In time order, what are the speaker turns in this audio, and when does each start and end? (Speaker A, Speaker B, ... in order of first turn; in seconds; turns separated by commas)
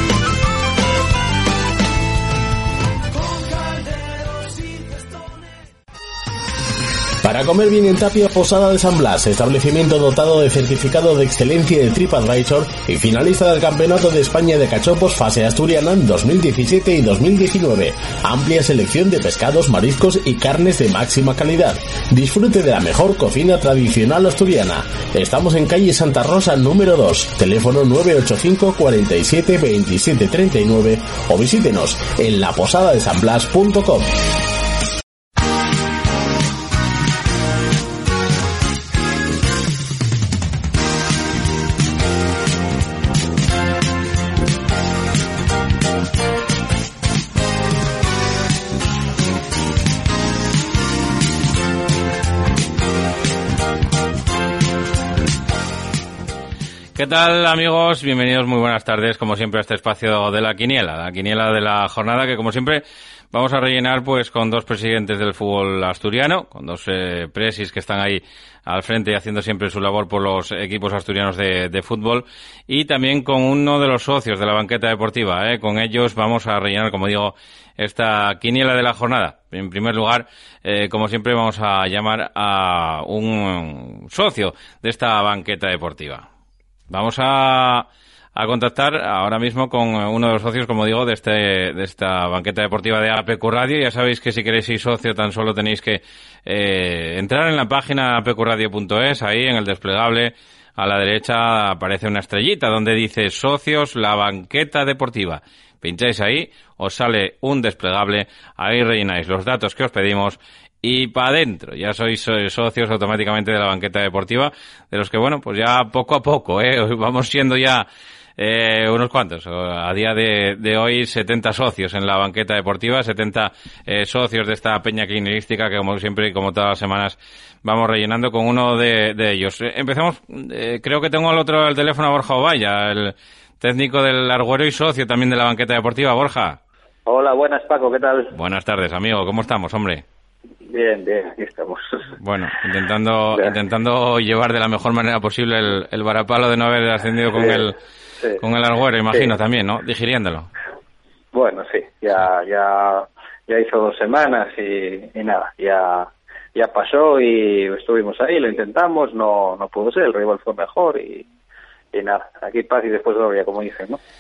Speaker A: 7.2-34.2, Speaker B: 57.0-86.3, Speaker B: 86.9-117.9, Speaker B: 118.4-136.6, Speaker C: 137.1-138.3, Speaker B: 138.3-140.0, Speaker C: 140.7-142.1, Speaker B: 142.2-147.8, Speaker C: 147.3-148.4, Speaker B: 148.4-150.5, Speaker C: 151.3-161.3, Speaker C: 161.9-164.0